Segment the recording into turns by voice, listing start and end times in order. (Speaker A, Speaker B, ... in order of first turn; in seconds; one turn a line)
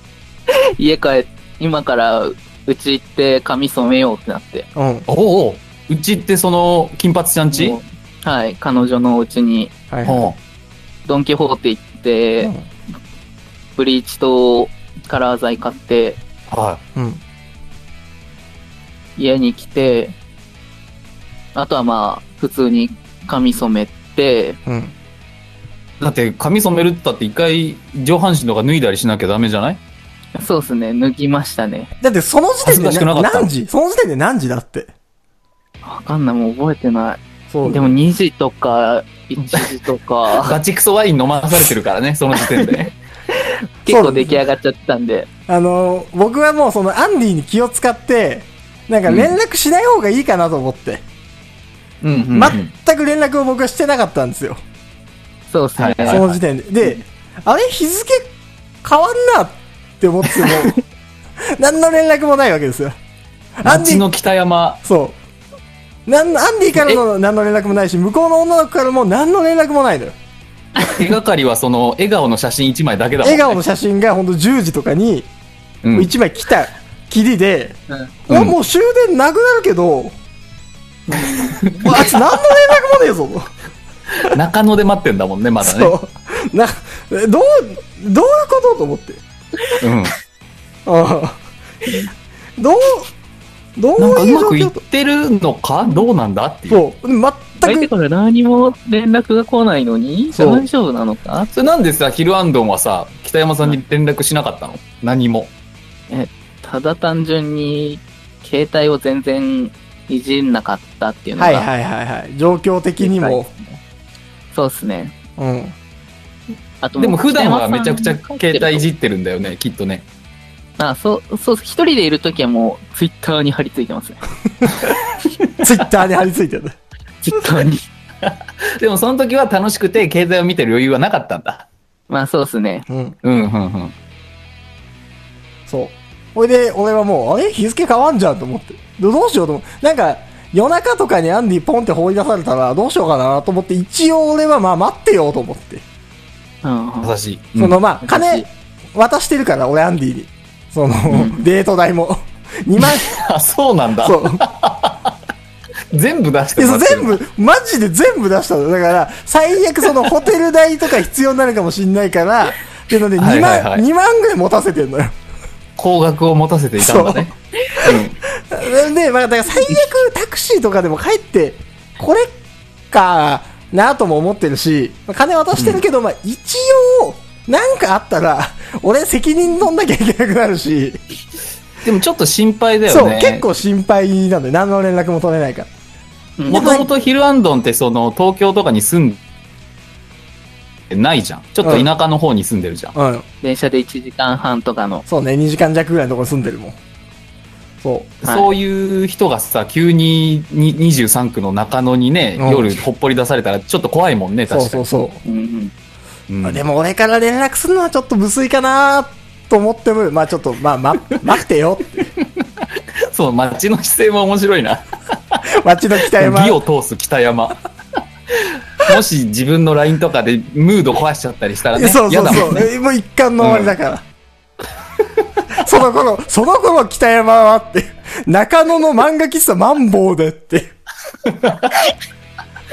Speaker A: 0.5-4.7
Speaker B: 4.8-5.1
Speaker C: 5.1-7.8
Speaker A: 7.5-9.7
Speaker B: 9.9-10.3
Speaker C: 10.1-10.4
Speaker A: 11.1-12.5
Speaker B: 12.4-12.7
Speaker A: 13.8-16.2
Speaker C: 16.5-16.8
Speaker B: 17.0-17.2
Speaker A: 19.2-20.1
Speaker A: 21.6-24.6
Speaker B: 24.7-24.9
Speaker C: 26.0-29.8
Speaker A: 30.4-31.9
Speaker B: 32.0-34.9
Speaker C: 32.6-33.5
Speaker A: 35.8-40.6
Speaker B: 37.5-37.9
Speaker C: 39.4-39.7
Speaker C: 40.3-43.0
Speaker A: 42.4-42.7
Speaker A: 43.4-45.3
Speaker B: 43.9-44.4
Speaker B: 45.5-51.0
Speaker C: 49.1-49.4
Speaker C: 52.0-52.7
Speaker B: 52.3-54.6
Speaker A: 55.5-56.3
Speaker C: 55.8-56.4
Speaker B: 56.1-58.3
Speaker B: 58.8-60.8
Speaker B: 61.5-63.0
Speaker B: 63.6-64.0
Speaker C: 63.6-64.8
Speaker B: 64.8-65.2
Speaker B: 66.1-70.2
Speaker C: 70.8-73.6
Speaker B: 73.2-75.3
Speaker C: 75.8-76.1
Speaker B: 76.0-80.2
Speaker C: 78.3-78.5
Speaker A: 81.1-81.8
Speaker C: 81.2-82.2
Speaker B: 81.8-83.5
Speaker C: 84.2-85.9
Speaker B: 85.6-89.2
Speaker C: 89.8-90.2
Speaker B: 90.9-91.4
Speaker B: 92.6-93.1
Speaker B: 93.8-94.8
Speaker C: 94.0-96.8
Speaker B: 96.7-97.9
Speaker A: 97.6-101.5
Speaker B: 100.3-100.7
Speaker C: 101.5-105.5
Speaker A: 106.1-111.7
Speaker B: 111.4-113.5
Speaker A: 113.0-113.6
Speaker A: 114.5-115.1
Speaker B: 115.4-115.8
Speaker A: 116.8-118.8
Speaker C: 117.0-120.1
Speaker A: 120.8-124.2
Speaker B: 125.6-126.8
Speaker A: 127.2-127.8
Speaker C: 128.2-131.7
Speaker A: 132.1-132.9
Speaker B: 132.9-133.2
Speaker C: 133.2-133.9
Speaker B: 135.7-145.8
Speaker A: 146.6-147.1
Speaker C: 147.0-147.8
Speaker B: 147.6-153.2
Speaker A: 148.0-148.4
Speaker C: 152.8-155.2
Speaker B: 154.0-154.4
Speaker C: 155.9-157.2
Speaker B: 156.6-165.1
Speaker C: 163.2-163.8
Speaker C: 165.8-168.2
Speaker B: 166.8-172.3
Speaker B: 172.9-181.0
Speaker C: 175.6-175.8
Speaker C: 181.8-183.4
Speaker B: 182.9-185.7
Speaker A: 186.4-186.9
Speaker C: 186.5-189.2
Speaker B: 186.5-186.9
Speaker C: 190.9-192.9
Speaker B: 191.6-191.9
Speaker B: 192.9-193.2
Speaker A: 193.4-195.0
Speaker B: 195.1-196.8
Speaker B: 197.8-198.1
Speaker A: 198.2-198.5
Speaker C: 198.2-204.8
Speaker B: 202.4-202.7
Speaker B: 204.5-205.2
Speaker A: 205.2-205.7
Speaker C: 206.3-206.6
Speaker B: 206.4-212.1
Speaker C: 212.2-215.4
Speaker B: 215.6-216.6
Speaker C: 216.0-217.6
Speaker C: 218.3-222.7
Speaker B: 221.8-224.1
Speaker C: 223.4-223.8
Speaker B: 225.6-230.7
Speaker C: 231.3-231.7